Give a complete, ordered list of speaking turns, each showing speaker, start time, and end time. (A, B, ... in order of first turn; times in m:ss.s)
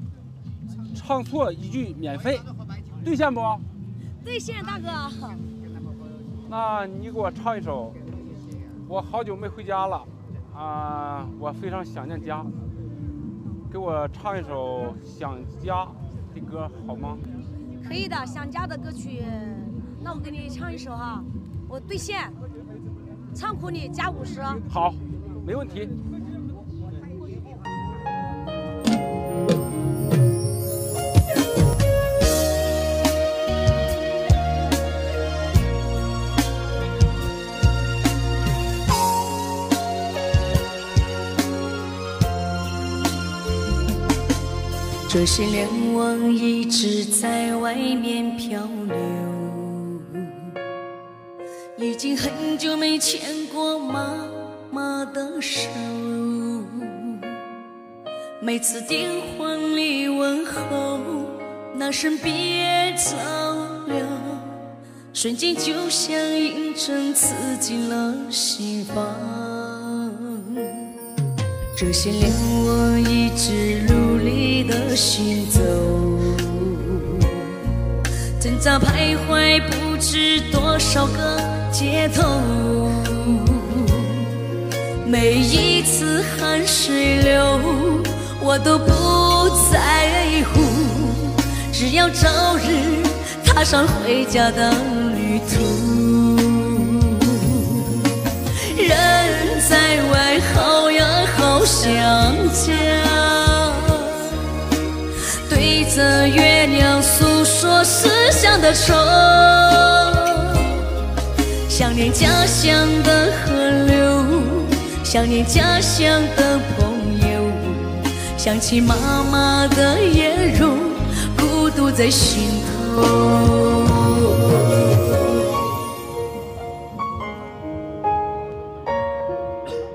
0:00.9-0:02.5 A
0:03.0-0:03.6 A
0:04.2-0:05.5 B
0:06.5-0:08.0 A
0:08.9-0:12.5 A
0:13.7-0:17.2 A
0:17.8-0:22.4 B
0:23.3-0:24.6 B
0:24.7-0:25.9 A
0:45.1-0:50.6 C
0:51.8-0:57.4 C
0:58.4-1:04.6 C
1:05.1-1:10.9 C
1:11.7-1:17.6 C
1:18.4-1:24.3 C
1:25.0-1:44.4 C
1:45.4-1:51.0 C
1:51.7-2:04.6 C